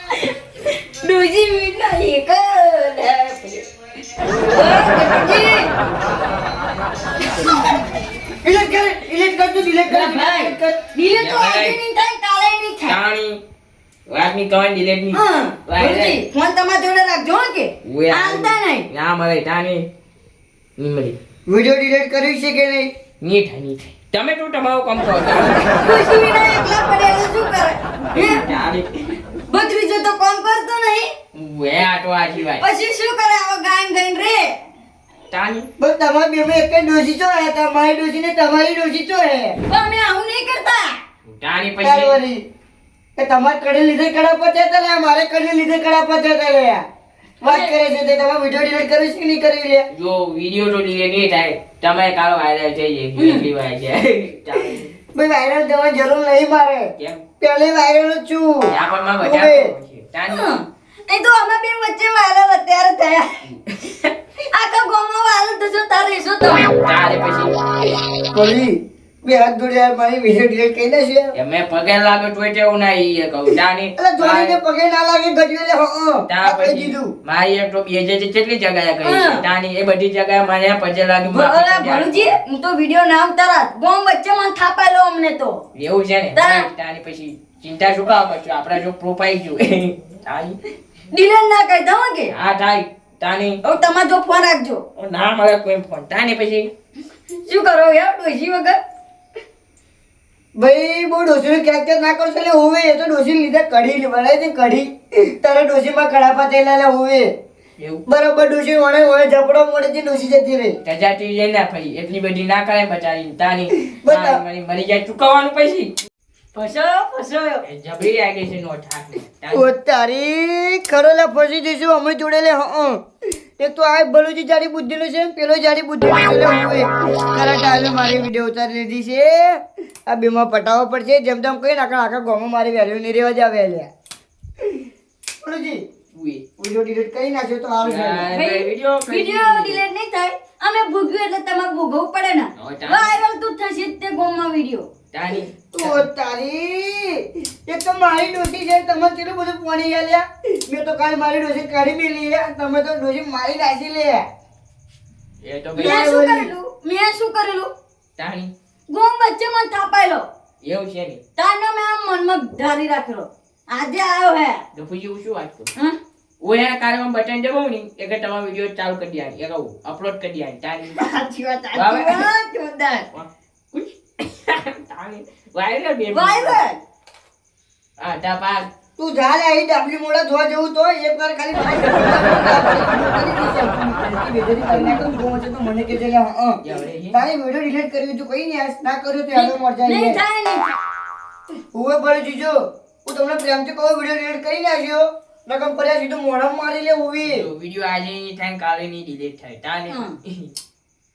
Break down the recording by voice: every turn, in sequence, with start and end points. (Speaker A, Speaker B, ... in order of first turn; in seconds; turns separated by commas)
Speaker A: 0.1-5.7, Speaker A: 7.3-7.8, Speaker B: 8.4-10.8, Speaker A: 9.8-13.0, Speaker C: 11.1-11.8, Speaker C: 12.8-13.4, Speaker C: 14.1-16.2, Speaker A: 15.1-18.9, Speaker C: 17.8-19.9, Speaker C: 20.8-21.2, Speaker B: 21.5-22.9, Speaker C: 23.2-26.0, Speaker A: 25.6-28.4, Speaker C: 28.1-28.9, Speaker A: 29.5-31.1, Speaker C: 31.3-32.6, Speaker A: 32.6-34.6, Speaker C: 35.3-35.7, Speaker B: 35.8-39.6, Speaker A: 39.7-41.0, Speaker C: 41.3-42.2, Speaker B: 41.8-42.4, Speaker B: 43.2-46.8, Speaker B: 47.4-49.9, Speaker A: 47.5-47.7, Speaker C: 49.9-54.9, Speaker A: 53.2-53.5, Speaker B: 55.1-59.7, Speaker C: 58.7-60.5, Speaker A: 60.3-63.4, Speaker C: 63.5-64.1, Speaker A: 64.5-66.8, Speaker C: 66.6-67.5, Speaker B: 68.3-71.3, Speaker C: 71.3-74.5, Speaker B: 74.0-77.1, Speaker C: 76.3-82.3, Speaker A: 79.0-79.5, Speaker A: 81.3-85.6, Speaker C: 85.7-90.6, Speaker A: 86.3-86.7, Speaker A: 91.1-92.3, Speaker C: 92.3-93.6, Speaker A: 93.6-94.8, Speaker C: 95.0-96.7, Speaker A: 97.4-98.8, Speaker B: 100.6-107.3, Speaker C: 107.8-108.0, Speaker B: 108.1-110.8, Speaker C: 110.8-115.9, Speaker B: 114.0-114.4, Speaker A: 116.5-117.6, Speaker C: 117.6-119.7, Speaker B: 119.5-123.0, Speaker B: 123.6-133.9, Speaker B: 135.4-135.8, Speaker C: 136.1-136.4, Speaker B: 136.6-138.2, Speaker C: 137.8-139.8, Speaker A: 138.3-144.9, Speaker C: 142.6-143.2, Speaker C: 145.1-146.0, Speaker B: 145.7-154.2, Speaker C: 155.4-156.1, Speaker B: 155.7-156.5, Speaker A: 155.7-157.7, Speaker C: 158.2-158.5, Speaker A: 158.9-160.3, Speaker C: 160.6-161.2, Speaker A: 161.4-164.6, Speaker C: 164.7-165.7, Speaker C: 166.4-171.1, Speaker A: 170.9-173.1, Speaker C: 171.7-172.3, Speaker C: 173.1-176.6, Speaker A: 176.1-176.8, Speaker C: 178.0-178.7, Speaker B: 179.0-186.6, Speaker C: 186.6-187.2, Speaker B: 187.1-190.2, Speaker A: 189.3-190.8, Speaker B: 191.7-197.4, Speaker C: 197.2-200.5, Speaker A: 199.9-200.2